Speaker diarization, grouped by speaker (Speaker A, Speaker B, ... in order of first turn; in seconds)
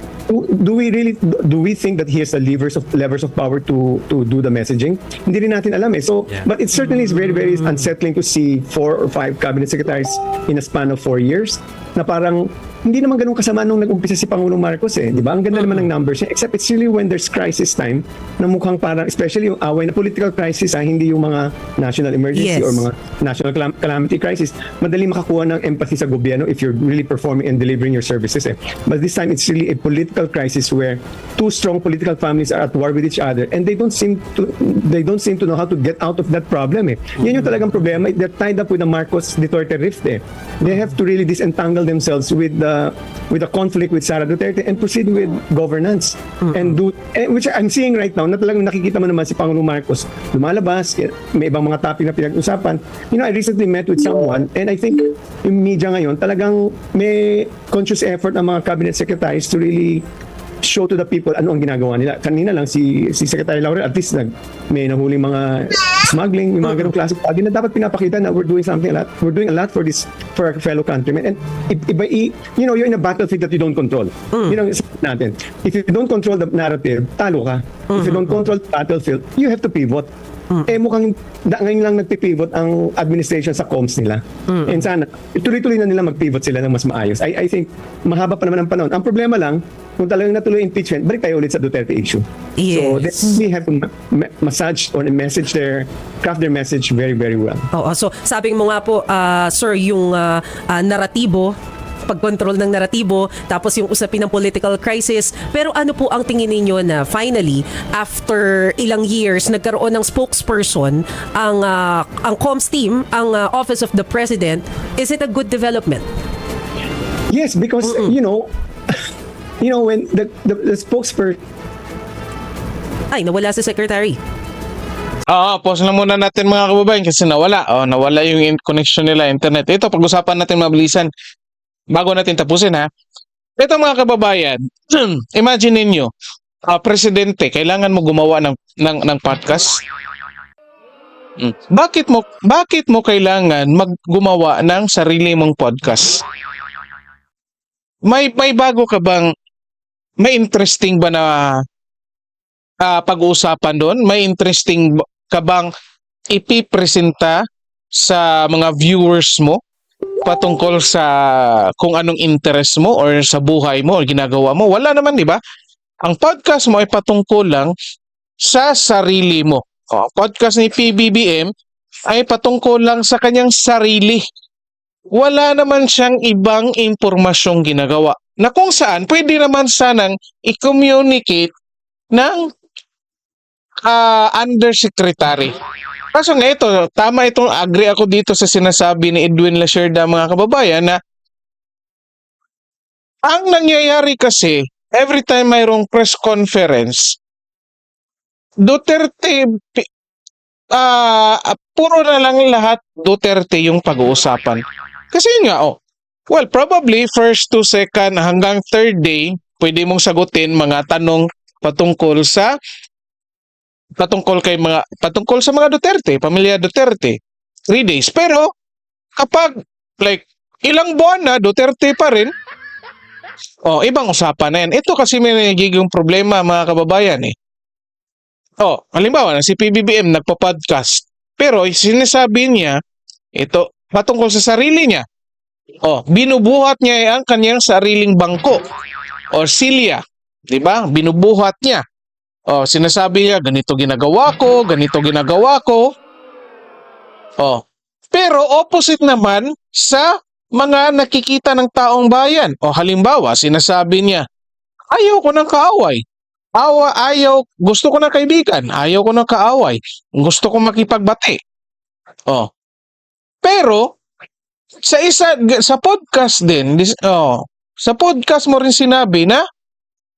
Speaker A: 0.3-60.0, 60.6-80.1, 80.7-97.7, 117.3-119.0, 119.6-121.4
Speaker B: 22.3-22.8, 77.9-78.3, 84.5-84.8, 92.6-93.4, 97.7-101.5, 102.0-116.0, 117.9-118.1, 123.1-124.2
Speaker C: 125.3-131.1, 131.9-132.9, 133.6-136.1, 136.7-139.8, 141.4-146.2, 148.1-149.3, 150.2-151.6, 152.8-155.7, 156.3-159.6, 160.2-165.4, 166.0-167.7, 168.4-171.5, 172.1-174.2, 175.1-181.5, 182.1-182.5, 183.8-185.5, 186.1-191.0, 193.2-197.2, 198.6-199.9, 200.7-205.8, 206.3-212.5, 214.0-217.2, 217.7-218.5, 219.2-222.3, 223.6-227.3, 228.6-232.8, 233.3-235.0, 235.8-238.6, 239.3-241.8, 242.5-245.9, 247.4-254.2, 254.9-256.0, 256.6-261.4, 263.4-263.9, 264.8-269.4